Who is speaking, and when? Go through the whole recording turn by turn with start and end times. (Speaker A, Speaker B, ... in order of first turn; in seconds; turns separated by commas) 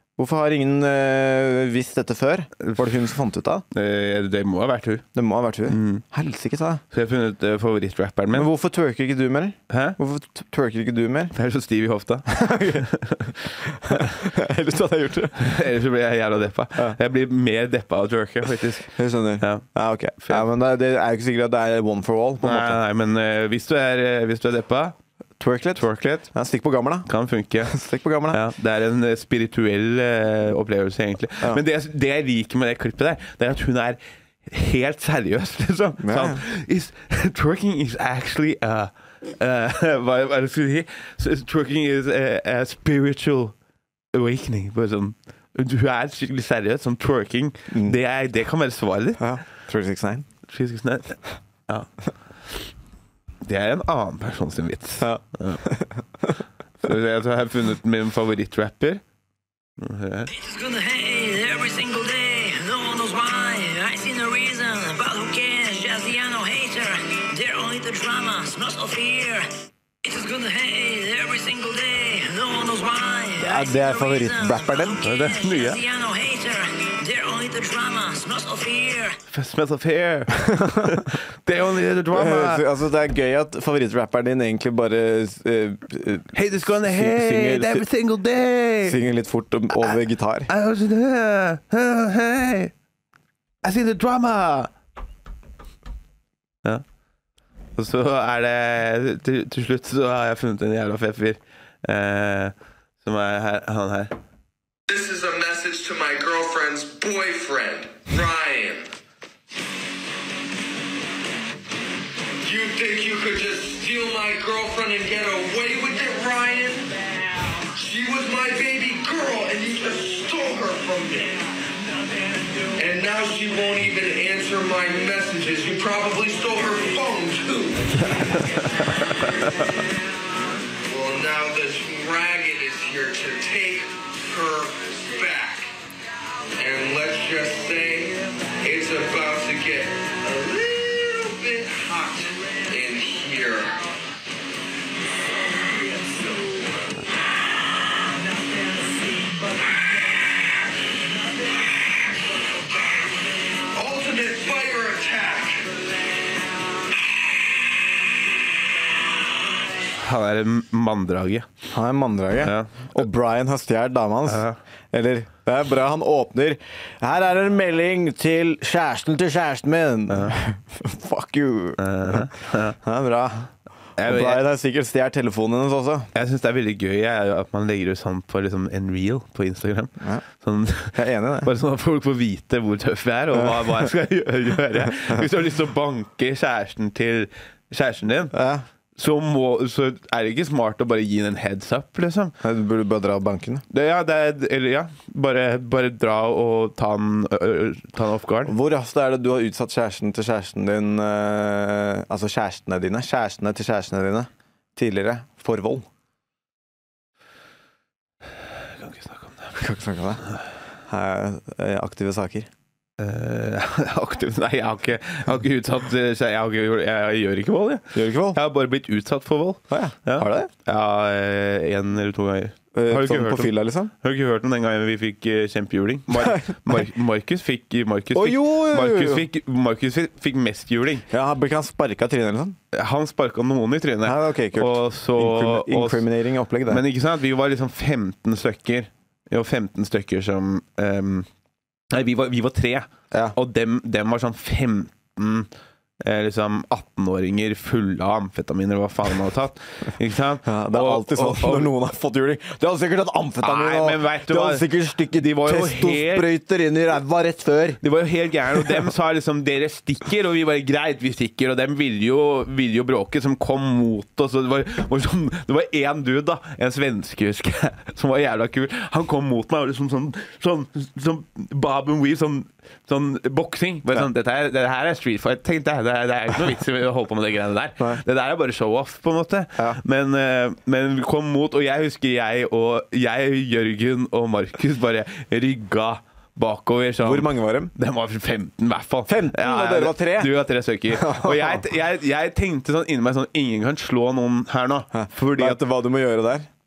Speaker A: 0.2-3.6, Speaker B: 3.7-5.0, Speaker A: 5.2-6.8, Speaker B: 5.7-6.0, Speaker B: 6.9-8.5, Speaker A: 8.3-11.3, Speaker B: 9.7-10.0, Speaker B: 11.3-14.1, Speaker A: 12.3-12.9, Speaker A: 13.7-15.4, Speaker B: 15.4-19.6, Speaker A: 18.9-22.8, Speaker B: 22.4-25.0, Speaker A: 25.4-27.1, Speaker B: 25.8-26.3, Speaker B: 27.1-27.7, Speaker A: 27.7-28.4, Speaker B: 28.3-43.5, Speaker A: 36.0-36.4, Speaker B: 44.1-49.2, Speaker A: 47.7-48.0, Speaker A: 49.2-50.3, Speaker B: 50.5-51.9, Speaker B: 53.4-55.6, Speaker A: 55.0-56.3, Speaker B: 56.8-59.0, Speaker B: 59.8-60.3, Speaker C: 60.3-69.5, Speaker C: 70.0-79.2, Speaker A: 73.4-75.0, Speaker B: 75.0-75.8, Speaker B: 79.3-82.6, Speaker A: 80.5-80.8, Speaker A: 82.1-87.8, Speaker B: 86.3-89.0, Speaker A: 88.8-90.5, Speaker B: 90.5-92.7, Speaker B: 93.6-94.7, Speaker B: 97.8-104.1, Speaker D: 104.9-108.9, Speaker D: 112.4-117.0, Speaker D: 117.7-121.4, Speaker D: 122.8-128.0, Speaker B: 128.0-129.6, Speaker D: 130.8-135.7, Speaker D: 136.6-143.8, Speaker D: 145.7-146.6, Speaker D: 149.2-149.6, Speaker D: 153.7-155.8, Speaker B: 160.0-161.5, Speaker A: 161.7-176.1, Speaker B: 162.4-162.9, Speaker B: 164.3-164.6, Speaker B: 170.1-170.4, Speaker B: 171.8-172.8, Speaker B: 174.0-174.4, Speaker B: 176.1-188.3, Speaker A: 180.9-181.5, Speaker A: 183.3-183.9, Speaker A: 188.3-188.6, Speaker B: 189.0-192.3, Speaker A: 192.4-193.6, Speaker B: 193.7-198.5, Speaker A: 198.4-205.9, Speaker B: 208.8-209.6, Speaker A: 209.6-210.3, Speaker A: 210.9-212.5, Speaker B: 213.0-231.1, Speaker A: 217.9-218.4, Speaker A: 219.7-220.5, Speaker A: 222.7-223.9, Speaker A: 226.1-226.4, Speaker A: 228.1-229.3, Speaker A: 231.1-232.6, Speaker B: 232.7-236.0, Speaker A: 234.0-236.8, Speaker B: 236.7-241.3, Speaker B: 241.9-245.5, Speaker A: 243.1-243.4, Speaker B: 246.0-251.7, Speaker A: 250.4-257.8, Speaker B: 253.4-254.7, Speaker B: 255.2-256.3, Speaker B: 257.8-295.6, Speaker A: 287.0-287.7, Speaker A: 289.1-290.4, Speaker A: 290.9-291.6, Speaker A: 294.9-296.5